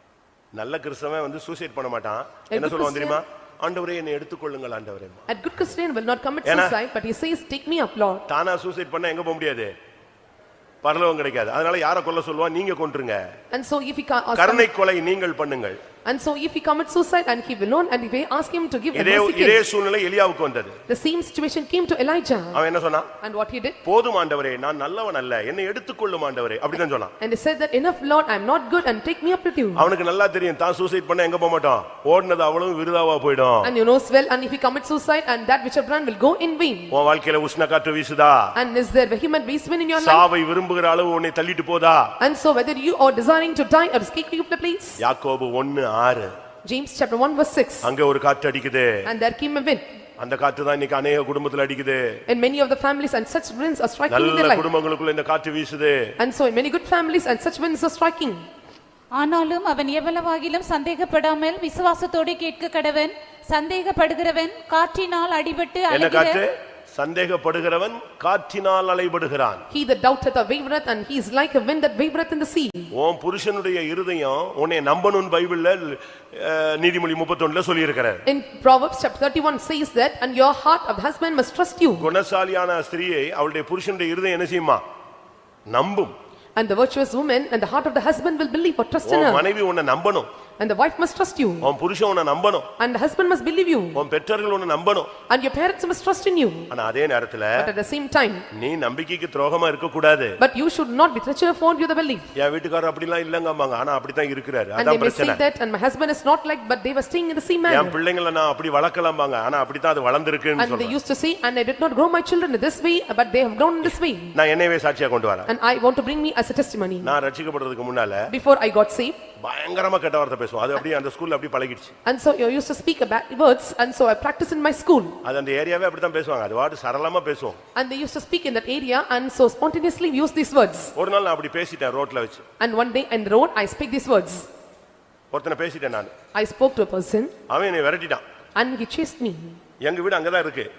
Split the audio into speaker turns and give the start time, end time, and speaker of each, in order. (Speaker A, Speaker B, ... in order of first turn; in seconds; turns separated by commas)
Speaker A: 0.5-5.2, Speaker B: 2.5-3.2, Speaker B: 5.3-8.2, Speaker A: 6.4-6.8, Speaker A: 8.3-9.7, Speaker A: 10.8-13.2, Speaker B: 13.5-14.7, Speaker A: 14.3-15.8, Speaker B: 16.1-19.6, Speaker A: 18.9-20.8, Speaker B: 20.9-22.6, Speaker A: 22.5-23.1, Speaker B: 23.2-23.8, Speaker A: 23.8-27.1, Speaker B: 27.2-29.9, Speaker A: 29.7-33.7, Speaker B: 33.6-36.9, Speaker A: 36.9-38.5, Speaker B: 38.5-40.2, Speaker A: 39.9-42.1, Speaker B: 42.2-45.0, Speaker A: 45.0-46.3, Speaker B: 46.6-47.9, Speaker A: 47.8-49.1, Speaker B: 49.0-49.8, Speaker A: 50.2-52.2, Speaker B: 52.3-54.7, Speaker A: 54.1-56.1, Speaker B: 56.2-58.4, Speaker C: 59.1-66.4, Speaker A: 65.9-69.6, Speaker B: 69.7-72.9, Speaker A: 72.9-78.2, Speaker B: 78.2-82.1, Speaker A: 82.0-84.8, Speaker A: 85.7-86.1, Speaker B: 86.5-89.5, Speaker A: 89.0-90.3, Speaker B: 90.6-91.7, Speaker A: 91.6-92.7, Speaker B: 92.8-94.0, Speaker A: 93.9-95.1, Speaker B: 95.3-96.7, Speaker A: 96.7-97.7, Speaker B: 97.6-98.5, Speaker A: 98.5-100.4, Speaker B: 100.4-102.3, Speaker A: 102.3-105.4, Speaker B: 104.8-108.0, Speaker A: 107.7-111.0, Speaker B: 110.6-114.3, Speaker A: 114.3-115.5, Speaker B: 115.5-117.1, Speaker A: 117.0-118.3, Speaker B: 118.3-119.2, Speaker A: 119.4-121.9, Speaker B: 122.0-125.2, Speaker A: 125.2-127.6, Speaker B: 127.7-130.9, Speaker A: 130.9-132.4, Speaker B: 132.6-134.5, Speaker A: 135.3-136.1, Speaker B: 136.3-137.3, Speaker A: 137.5-138.2, Speaker B: 138.6-139.6, Speaker A: 139.8-140.7